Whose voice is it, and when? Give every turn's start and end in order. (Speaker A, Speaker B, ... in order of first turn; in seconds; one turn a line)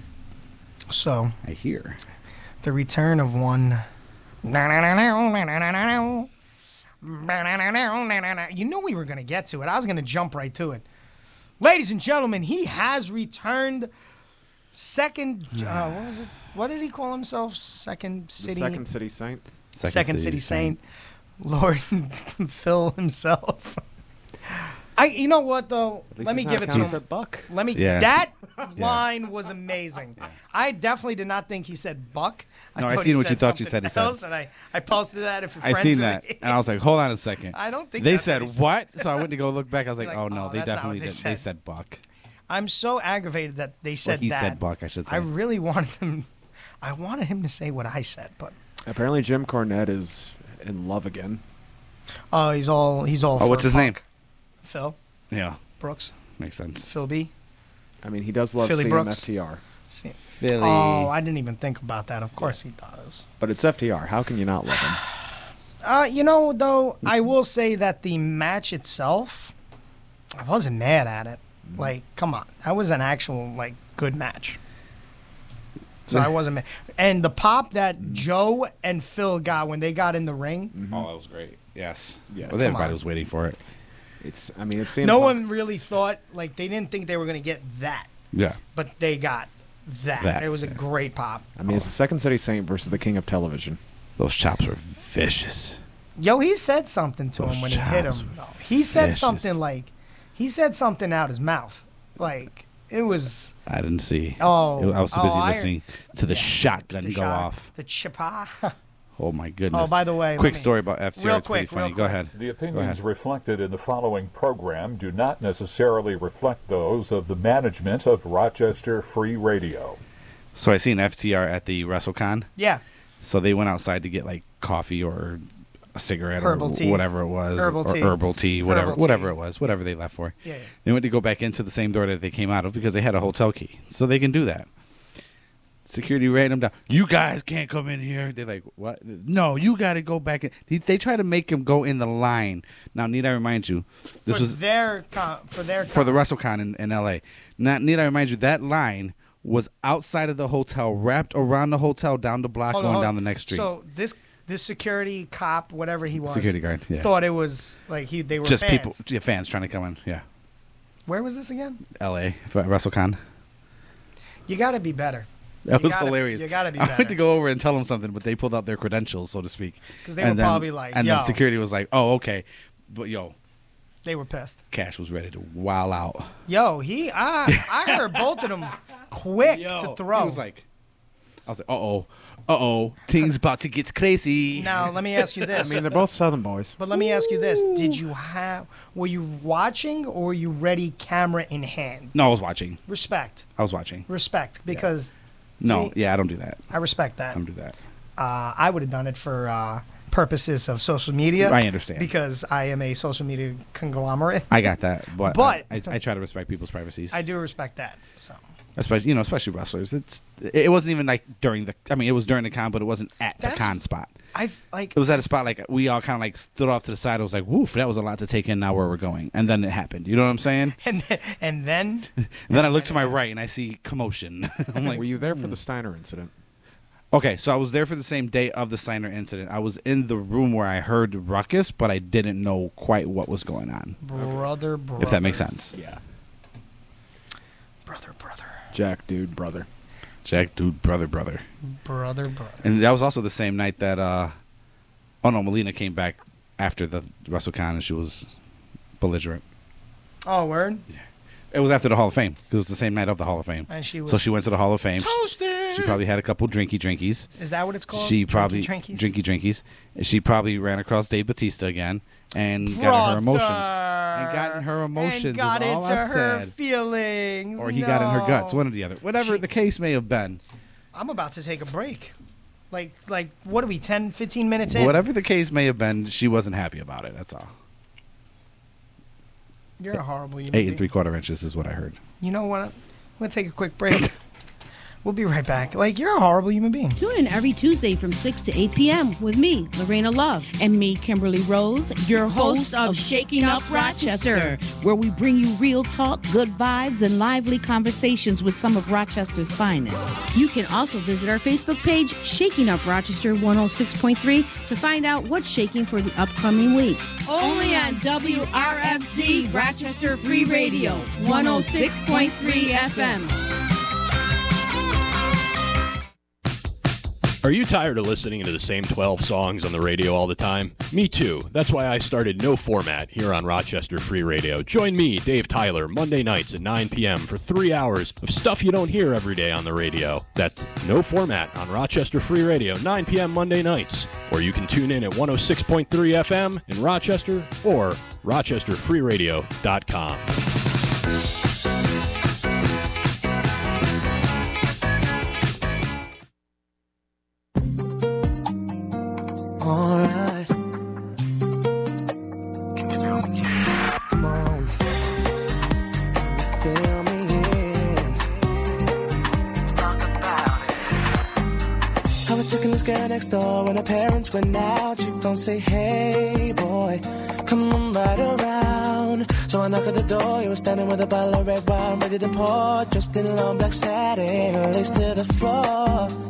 Speaker A: 0.9-1.3
Speaker B: 1.4-2.0
Speaker A: 2.6-3.8
Speaker A: 4.4-6.3
Speaker A: 7.0-10.8
Speaker A: 11.6-13.9
Speaker A: 14.7-18.8
Speaker B: 15.6-15.9
Speaker C: 18.4-19.4
Speaker B: 19.7-20.8
Speaker A: 19.8-20.8
Speaker A: 21.4-23.8
Speaker A: 24.9-36.6
Speaker C: 26.1-27.5
Speaker B: 26.7-27.0
Speaker B: 27.7-28.1
Speaker B: 28.8-29.0
Speaker B: 32.8-34.2
Speaker B: 35.6-42.0
Speaker A: 37.5-39.3
Speaker A: 40.0-41.4
Speaker A: 42.5-46.3
Speaker B: 44.0-45.3
Speaker A: 46.8-48.5
Speaker C: 48.9-51.4
Speaker A: 52.3-54.0
Speaker B: 53.4-54.0
Speaker A: 54.6-55.0
Speaker B: 55.3-55.6
Speaker A: 55.8-56.1
Speaker B: 56.4-56.9
Speaker A: 56.8-57.3
Speaker C: 58.0-59.6
Speaker A: 58.6-59.3
Speaker A: 59.9-63.2
Speaker B: 60.4-61.1
Speaker C: 63.4-65.0
Speaker A: 65.8-69.5
Speaker A: 70.3-74.6
Speaker A: 76.1-80.7
Speaker C: 78.0-78.2
Speaker C: 80.7-81.1
Speaker B: 80.9-83.6
Speaker C: 82.3-82.7
Speaker A: 82.5-83.0
Speaker C: 84.2-85.5
Speaker A: 85.0-88.1
Speaker B: 88.3-88.6
Speaker A: 88.7-91.5
Speaker B: 90.2-90.8
Speaker C: 91.5-93.8
Speaker B: 94.2-95.8
Speaker A: 96.2-103.5
Speaker B: 97.4-98.3
Speaker B: 98.9-99.5
Speaker B: 103.7-107.7
Speaker A: 104.4-105.7
Speaker A: 106.2-108.7
Speaker B: 109.2-113.0
Speaker A: 109.7-112.2
Speaker D: 112.3-120.0
Speaker B: 120.5-122.5
Speaker A: 122.6-122.8
Speaker B: 123.2-125.4
Speaker B: 125.9-134.7
Speaker A: 126.4-129.3
Speaker A: 130.4-130.7
Speaker B: 135.8-144.6
Speaker A: 144.3-146.2
Speaker B: 145.8-153.7
Speaker A: 152.7-158.9
Speaker B: 156.2-157.1
Speaker B: 158.4-160.2
Speaker A: 161.1-161.8
Speaker B: 161.9-163.2
Speaker A: 164.5-167.2
Speaker B: 165.7-173.3
Speaker A: 170.0-171.4
Speaker A: 174.0-174.6
Speaker B: 174.7-176.3
Speaker A: 176.5-180.4
Speaker B: 177.5-178.2
Speaker B: 179.4-180.6
Speaker B: 181.4-185.7
Speaker A: 184.5-186.0
Speaker C: 185.5-186.8
Speaker A: 186.8-192.1
Speaker B: 192.1-192.8
Speaker A: 192.9-193.4
Speaker B: 193.6-194.1
Speaker A: 194.1-195.1
Speaker B: 195.6-196.6
Speaker A: 195.6-195.9
Speaker A: 196.7-197.4
Speaker B: 197.3-197.8
Speaker A: 198.2-204.7
Speaker B: 201.4-202.1
Speaker B: 204.5-207.2
Speaker A: 205.2-205.9
Speaker A: 207.1-208.4
Speaker B: 208.8-214.2
Speaker A: 213.4-213.8
Speaker A: 214.3-215.0
Speaker B: 214.9-220.8
Speaker A: 220.8-223.2
Speaker B: 222.2-225.5
Speaker C: 224.8-226.3
Speaker B: 227.1-234.0
Speaker A: 234.0-235.5
Speaker C: 234.2-234.4
Speaker B: 235.0-235.8
Speaker C: 235.7-236.0
Speaker A: 237.8-238.6
Speaker C: 238.7-239.7
Speaker B: 240.2-241.4
Speaker A: 241.8-242.6
Speaker B: 242.6-244.3
Speaker B: 245.2-248.3
Speaker B: 249.0-249.4
Speaker A: 250.2-250.8
Speaker B: 251.5-255.2
Speaker A: 253.7-254.2
Speaker A: 255.0-256.0
Speaker B: 255.7-257.3
Speaker A: 257.4-259.1
Speaker B: 257.9-266.5
Speaker A: 262.6-268.6
Speaker B: 267.6-270.4
Speaker A: 269.2-269.4
Speaker A: 270.9-272.1
Speaker A: 272.7-275.0
Speaker B: 274.7-277.5
Speaker A: 279.8-280.8
Speaker B: 280.5-282.0
Speaker A: 282.2-284.1
Speaker A: 285.0-287.0
Speaker E: 287.0-290.5
Speaker F: 290.5-300.2
Speaker E: 292.1-294.6
Speaker E: 300.3-313.3
Speaker F: 307.3-309.7
Speaker F: 310.2-313.2
Speaker G: 317.4-340.3
Speaker H: 349.6-350.5
Speaker H: 352.8-354.8
Speaker H: 356.1-358.4
Speaker H: 359.6-361.0
Speaker H: 362.2-376.1